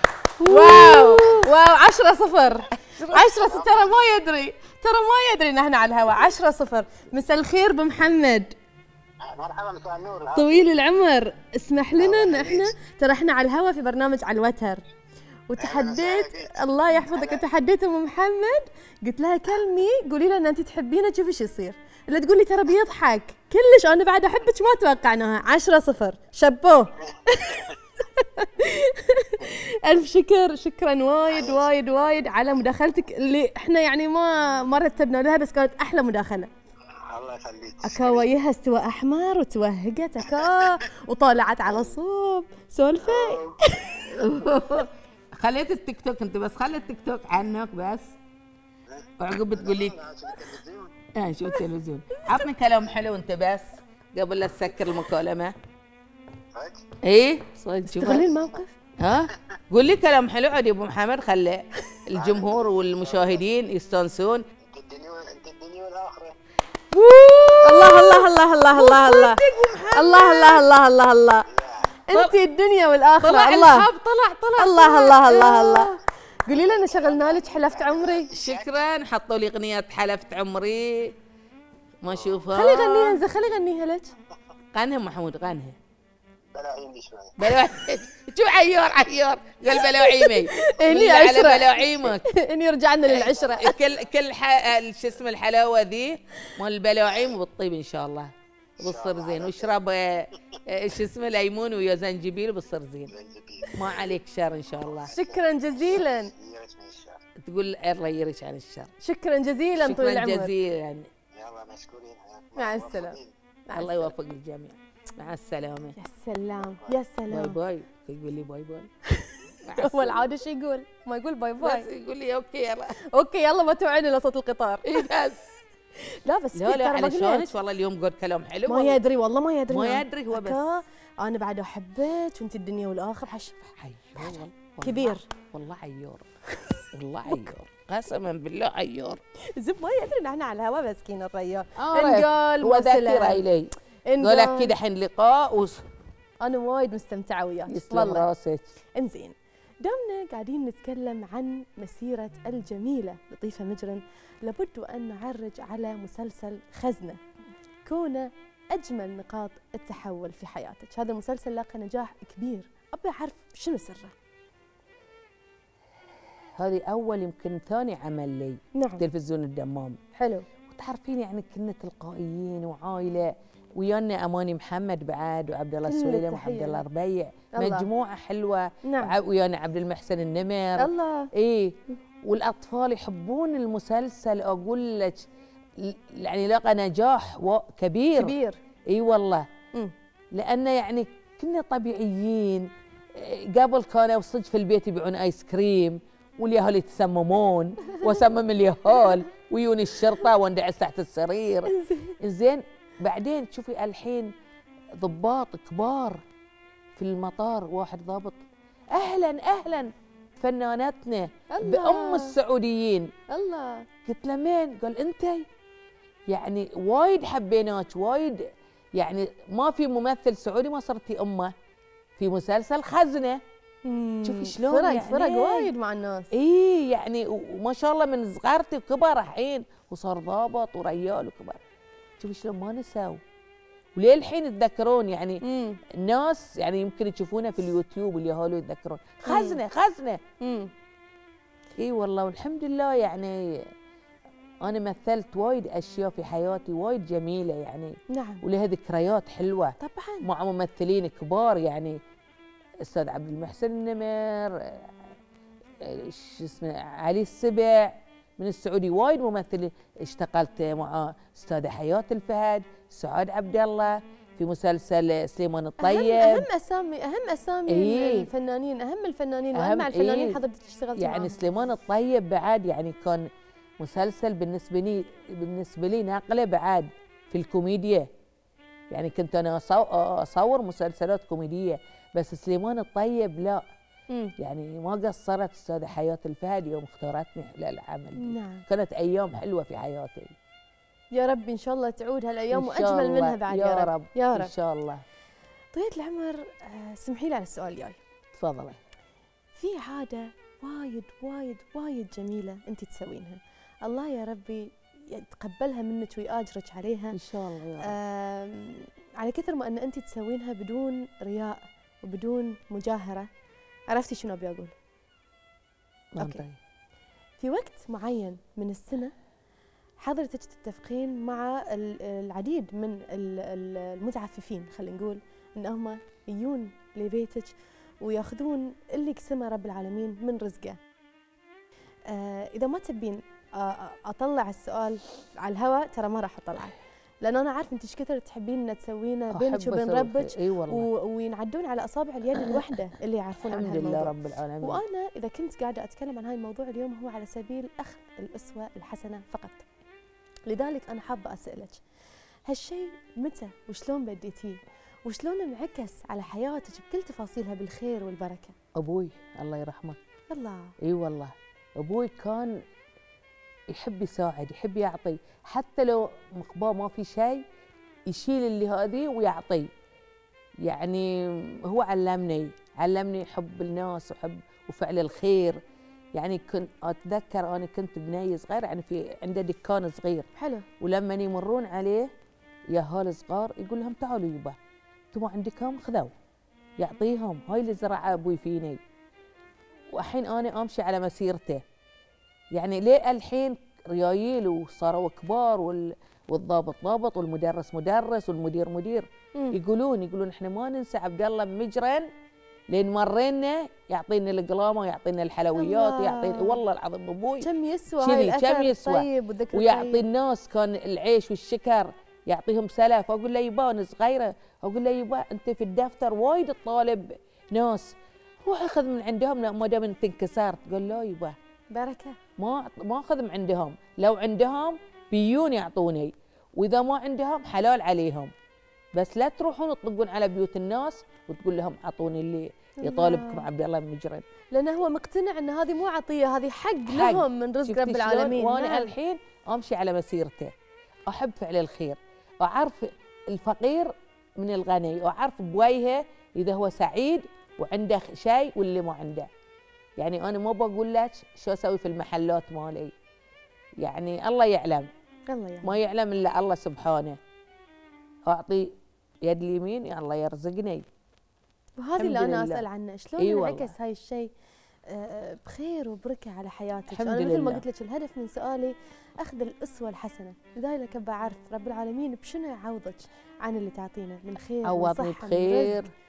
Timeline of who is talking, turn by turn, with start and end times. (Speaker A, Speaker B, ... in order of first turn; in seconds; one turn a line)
Speaker A: 0.4-1.4
Speaker B: 0.4-8.5
Speaker C: 3.1-4.0
Speaker C: 9.2-10.7
Speaker B: 10.3-14.8
Speaker C: 11.9-12.7
Speaker B: 15.5-36.5
Speaker C: 15.6-17.4
Speaker C: 31.3-31.6
Speaker C: 37.0-38.3
Speaker B: 37.8-44.0
Speaker C: 43.0-43.6
Speaker A: 44.0-48.2
Speaker C: 48.9-51.1
Speaker A: 49.2-50.0
Speaker A: 51.1-55.5
Speaker C: 56.5-56.9
Speaker A: 57.0-58.2
Speaker B: 57.9-58.7
Speaker A: 59.0-64.4
Speaker C: 62.1-63.4
Speaker C: 64.6-66.3
Speaker A: 66.9-70.6
Speaker B: 67.6-71.4
Speaker C: 71.5-71.9
Speaker B: 72.1-73.9
Speaker A: 72.1-72.4
Speaker A: 73.2-75.9
Speaker B: 74.6-78.3
Speaker C: 76.5-78.7
Speaker A: 78.3-81.1
Speaker A: 82.0-83.2
Speaker B: 82.5-84.1
Speaker A: 84.7-85.8
Speaker C: 86.5-87.6
Speaker A: 87.4-92.2
Speaker B: 89.8-93.7
Speaker A: 93.1-103.1
Speaker C: 98.8-99.7
Speaker C: 103.0-103.8
Speaker A: 103.7-105.1
Speaker C: 104.8-107.2
Speaker B: 105.1-106.3
Speaker A: 107.4-108.9
Speaker B: 109.0-110.5
Speaker A: 109.7-111.1
Speaker C: 111.3-113.3
Speaker B: 112.5-114.1
Speaker A: 113.7-115.9
Speaker B: 116.0-117.6
Speaker A: 117.3-118.9
Speaker B: 119.2-121.9
Speaker A: 119.6-120.3
Speaker A: 121.6-123.0
Speaker B: 123.1-125.0
Speaker A: 124.9-125.5
Speaker B: 126.1-127.5
Speaker A: 126.5-129.0
Speaker B: 128.7-133.6
Speaker A: 129.7-130.6
Speaker A: 133.7-136.3
Speaker B: 134.2-135.3
Speaker A: 136.9-139.2
Speaker B: 139.5-143.4
Speaker A: 141.8-145.8
Speaker B: 144.1-144.7
Speaker B: 146.4-148.3
Speaker A: 147.7-148.6
Speaker B: 148.9-157.2
Speaker B: 157.8-164.1
Speaker A: 166.6-170.0
Speaker B: 168.7-169.0
Speaker B: 170.2-170.5
Speaker A: 170.7-185.2
Speaker B: 175.9-176.8
Speaker B: 177.6-177.8
Speaker B: 178.8-179.1
Speaker B: 180.8-181.3
Speaker A: 185.8-188.3
Speaker B: 188.1-188.6
Speaker A: 188.9-189.5
Speaker A: 190.3-204.3
Speaker B: 197.9-198.2
Speaker B: 201.7-202.2
Speaker A: 204.9-206.2
Speaker A: 206.9-213.1
Speaker B: 211.5-212.4
Speaker B: 213.3-213.9
Speaker A: 214.0-215.5
Speaker A: 216.3-221.5
Speaker A: 222.2-223.4
Speaker B: 223.8-226.3
Speaker A: 224.2-225.7
Speaker A: 226.3-231.6
Speaker A: 232.2-233.2
Speaker A: 233.9-240.2
Speaker B: 235.4-235.8
Speaker B: 239.2-239.6
Speaker B: 240.4-240.7
Speaker A: 241.8-243.7
Speaker A: 244.6-252.0
Speaker B: 248.1-248.4
Speaker B: 249.8-250.3
Speaker A: 252.8-254.9
Speaker A: 255.8-266.5
Speaker B: 265.8-271.4
Speaker A: 267.7-268.3
Speaker A: 269.5-270.4
Speaker A: 271.0-273.3
Speaker A: 273.8-278.1
Speaker A: 278.9-283.6
Speaker A: 284.4-290.4
Speaker B: 288.2-288.6
Speaker B: 291.1-294.5
Speaker A: 292.5-295.0
Speaker B: 295.7-298.0
Speaker A: 298.3-298.8
Speaker B: 299.5-307.2
Speaker A: 307.1-307.9
Speaker B: 307.8-313.3
Speaker B: 313.9-314.7
Speaker A: 316.1-316.6
Speaker B: 317.4-319.1
Speaker B: 320.0-330.8
Speaker B: 332.1-349.6
Speaker A: 339.3-340.9
Speaker A: 343.4-344.8
Speaker B: 350.5-351.8
Speaker B: 352.5-358.5
Speaker A: 358.7-360.0
Speaker B: 360.3-360.7
Speaker A: 360.8-362.6
Speaker A: 363.7-367.4
Speaker A: 368.1-369.7
Speaker A: 370.6-375.6
Speaker A: 376.1-380.3
Speaker B: 380.4-380.6
Speaker A: 380.8-382.1
Speaker A: 382.7-384.6
Speaker A: 385.1-386.1
Speaker A: 386.8-388.8
Speaker A: 389.9-391.6
Speaker A: 392.5-402.1
Speaker A: 402.7-407.5
Speaker B: 405.6-406.6
Speaker B: 407.4-410.0
Speaker A: 408.0-421.3
Speaker B: 421.7-422.2
Speaker A: 422.4-428.3
Speaker A: 428.9-434.2
Speaker B: 432.8-433.4
Speaker B: 434.5-438.9
Speaker A: 436.9-440.5
Speaker A: 441.1-449.3
Speaker A: 450.0-452.9
Speaker A: 453.8-454.9
Speaker B: 455.3-455.7
Speaker A: 455.6-457.2
Speaker A: 458.2-458.7
Speaker A: 459.2-460.9
Speaker B: 461.8-464.3
Speaker A: 462.0-462.6
Speaker A: 463.2-463.7
Speaker B: 464.9-475.8
Speaker A: 466.9-467.6
Speaker A: 474.6-475.9